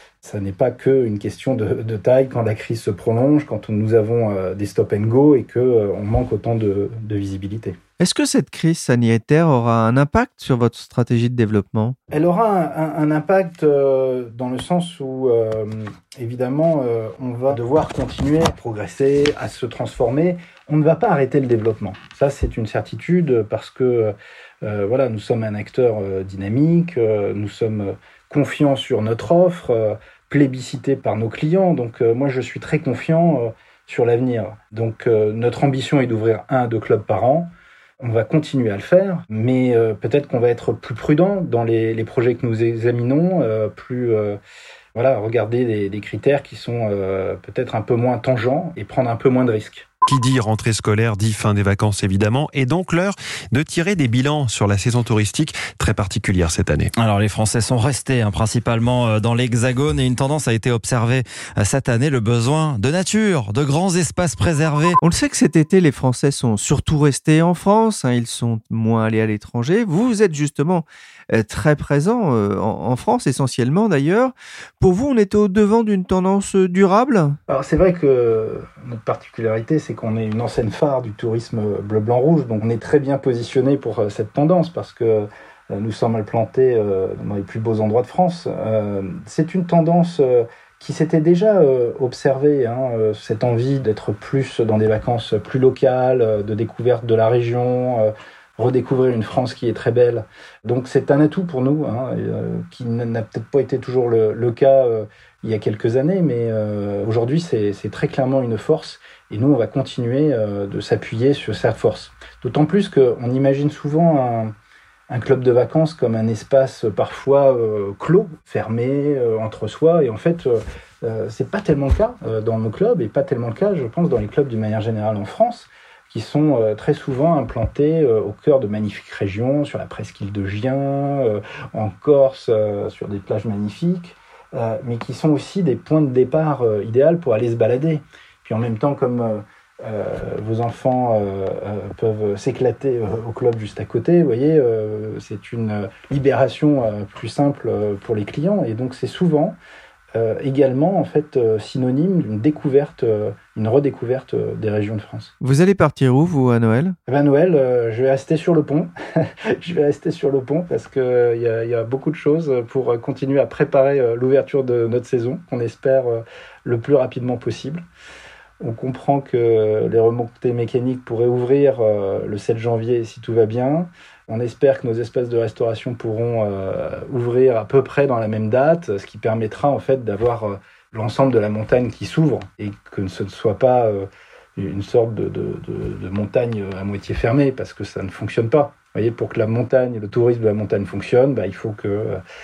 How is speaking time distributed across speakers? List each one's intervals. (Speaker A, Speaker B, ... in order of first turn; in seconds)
Speaker A: 0.2-7.8, 12.1-44.4, 45.0-49.9, 77.5-114.5, 115.1-149.6, 150.1-155.3, 157.1-167.8, 168.6-192.2
Speaker B: 8.0-12.0, 65.0-77.4, 155.4-157.0
Speaker C: 50.0-56.9
Speaker D: 57.0-65.0